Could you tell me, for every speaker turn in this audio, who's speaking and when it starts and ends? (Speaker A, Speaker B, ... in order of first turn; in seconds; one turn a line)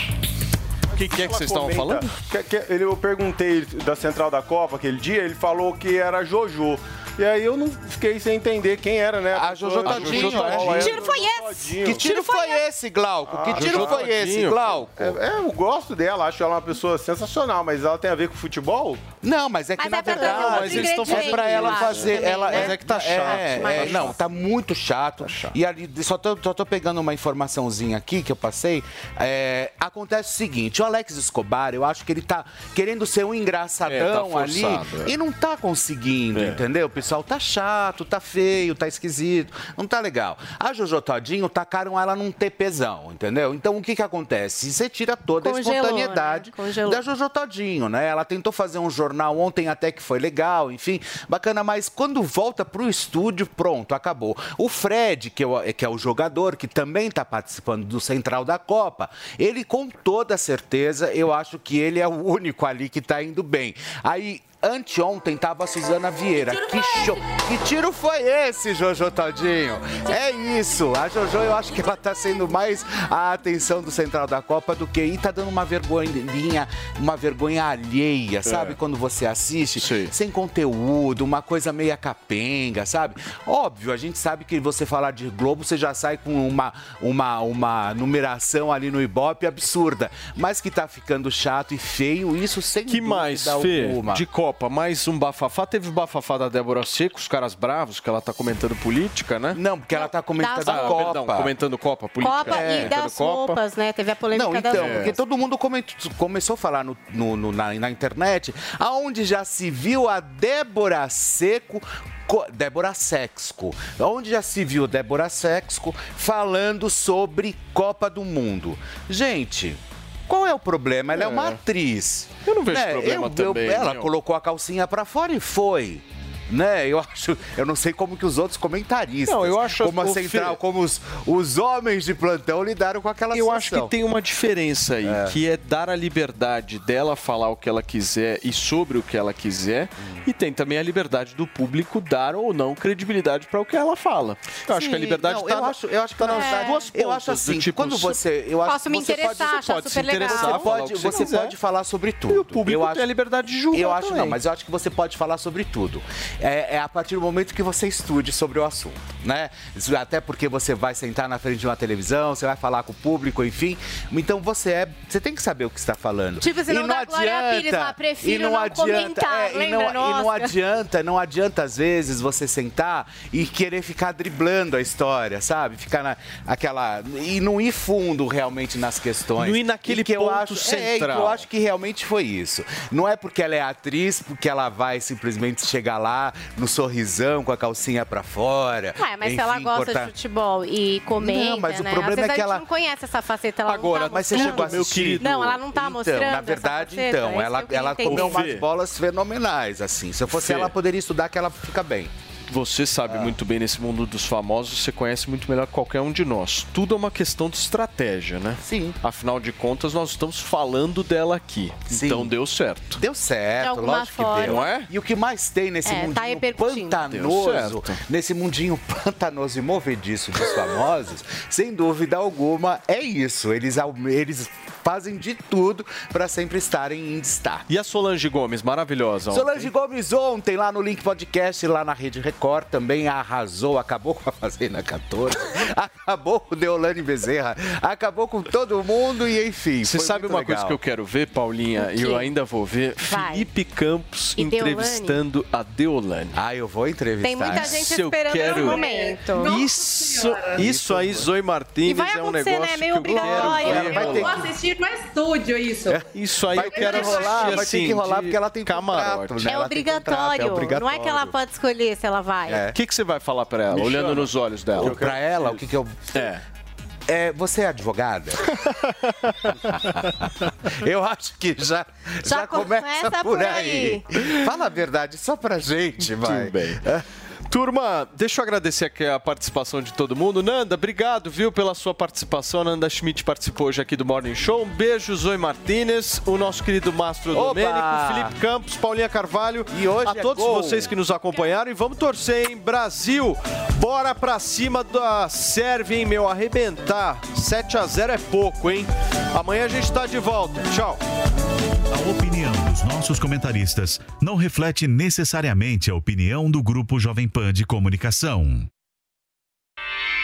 Speaker A: 0.9-12.1
Speaker B: 0.9-2.1
Speaker C: 9.3-11.1
Speaker B: 9.8-11.0
Speaker D: 10.7-12.6
Speaker C: 11.8-15.2
Speaker A: 13.3-14.1
Speaker B: 13.5-14.9
Speaker A: 15.0-19.0
Speaker C: 19.2-94.2
Speaker D: 19.8-24.1
Speaker B: 20.1-24.2
Speaker B: 25.2-25.5
Speaker B: 33.9-35.1
Speaker B: 36.3-36.6
Speaker D: 45.4-47.0
Speaker B: 78.4-78.8
Speaker B: 79.8-80.1
Speaker B: 92.9-99.6
Speaker C: 99.5-101.5
Speaker D: 99.9-101.1
Speaker B: 100.6-103.6
Speaker D: 102.2-105.1
Speaker C: 102.5-102.9
Speaker C: 104.3-133.9
Speaker B: 104.7-105.2
Speaker B: 121.1-121.6
Speaker B: 122.5-124.1
Speaker B: 129.3-130.6
Speaker B: 133.3-148.2
Speaker C: 135.0-135.4
Speaker C: 140.0-140.2
Speaker C: 144.7-149.7
Speaker D: 146.3-146.9
Speaker D: 148.6-151.2
Speaker B: 149.0-151.6
Speaker C: 150.2-153.1
Speaker B: 152.3-154.4
Speaker C: 153.7-190.1
Speaker D: 166.4-170.5
Speaker B: 179.4-181.4
Speaker D: 188.9-198.5
Speaker C: 191.2-192.7
Speaker B: 193.7-195.6
Speaker C: 193.9-202.1
Speaker B: 198.1-198.6
Speaker B: 200.3-200.7
Speaker B: 202.5-213.0
Speaker C: 203.1-203.3
Speaker C: 208.6-209.0
Speaker C: 211.9-212.3
Speaker C: 213.0-227.6
Speaker D: 213.6-214.7
Speaker B: 214.4-214.9
Speaker D: 215.8-217.0
Speaker B: 217.1-218.0
Speaker B: 227.7-229.7
Speaker C: 229.3-240.8
Speaker B: 239.8-246.4
Speaker D: 241.8-242.3
Speaker D: 243.0-243.5
Speaker D: 244.4-245.2
Speaker C: 246.3-247.9
Speaker D: 247.2-249.5
Speaker B: 247.5-254.4
Speaker E: 248.6-250.7
Speaker C: 250.6-251.3
Speaker D: 251.8-254.3
Speaker C: 253.1-254.4
Speaker E: 254.0-256.0
Speaker B: 256.0-259.5
Speaker C: 256.5-261.3
Speaker E: 256.7-257.6
Speaker D: 259.4-262.6
Speaker B: 260.5-261.3
Speaker C: 262.4-262.7
Speaker B: 262.7-265.0
Speaker A: 263.8-265.6
Speaker C: 264.7-266.3
Speaker B: 266.1-266.4
Speaker C: 267.1-268.5
Speaker C: 269.5-276.6
Speaker D: 272.2-274.0
Speaker B: 276.0-276.9
Speaker B: 277.5-301.0
Speaker C: 287.3-288.4
Speaker C: 289.7-290.9
Speaker F: 301.9-308.7